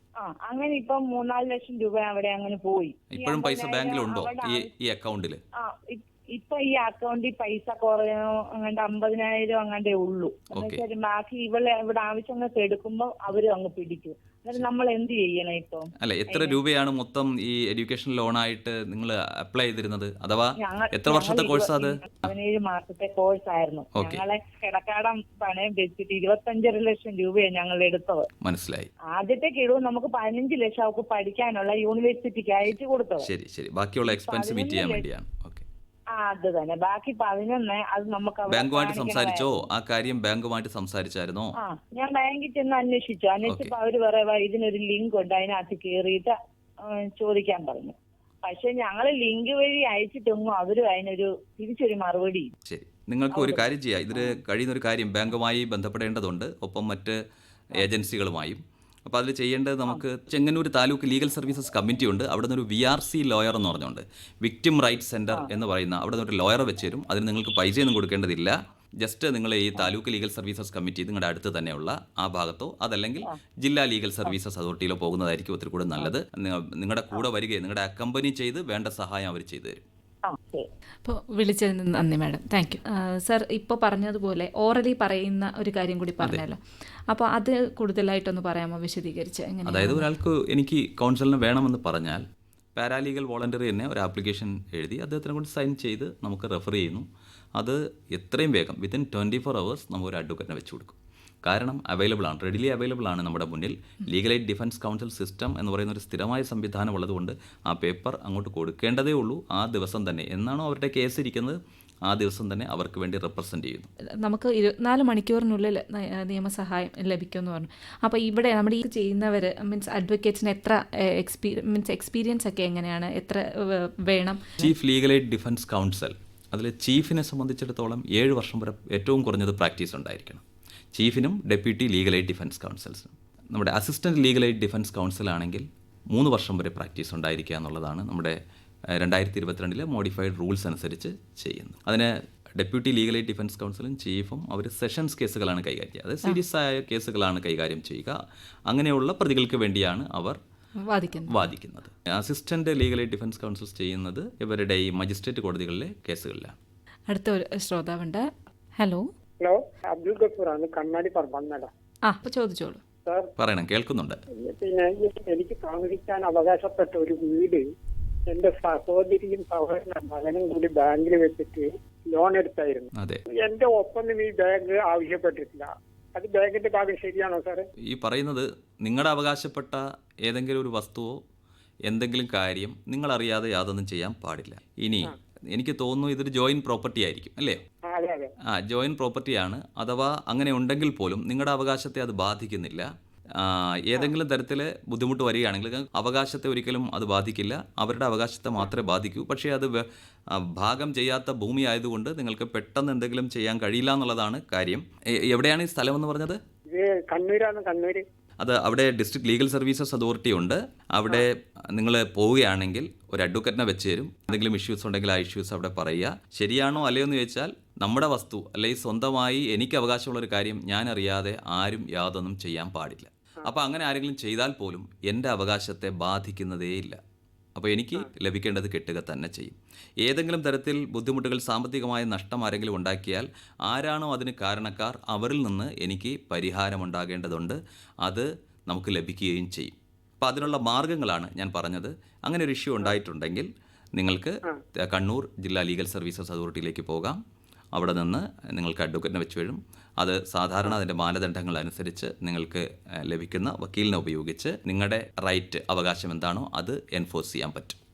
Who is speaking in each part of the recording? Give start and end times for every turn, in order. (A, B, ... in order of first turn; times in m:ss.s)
0:00.2-0:04.7 A
0:03.1-0:05.4 B
0:05.6-0:16.6 A
0:10.6-0:10.8 B
0:16.0-0:22.3 B
0:20.6-0:28.3 A
0:24.0-0:24.2 B
0:28.4-0:28.9 B
0:29.1-0:33.3 A
0:33.2-0:35.6 B
0:34.1-0:35.1 A
0:36.1-0:39.5 A
0:38.5-0:41.6 B
0:41.6-0:52.5 A
0:43.4-0:43.7 B
0:52.7-0:57.2 B
0:53.3-0:54.4 A
0:57.8-1:19.8 B
1:20.3-1:20.7 A
1:21.0-1:30.1 C
1:29.7-1:32.2 B
1:32.8-1:53.9 B
1:54.2-2:04.7 C
2:04.6-2:10.4 B
2:11.0-2:18.4 B
2:19.0-2:30.4 B
2:30.8-2:31.5 C
2:31.3-2:36.6 B
2:37.1-2:39.1 C
2:39.4-2:41.7 D
2:42.1-2:42.8 C
2:43.1-2:43.3 D
2:43.4-2:44.2 B
2:44.3-2:47.6 D
2:48.3-2:57.7 D
2:53.0-2:53.2 B
2:57.9-3:01.2 B
3:01.9-3:07.6 B
3:07.8-3:08.3 D
3:08.5-3:26.4 B
3:26.7-3:28.0 D
3:28.4-3:47.0 B
3:47.6-4:07.2 B
4:07.8-4:17.8 B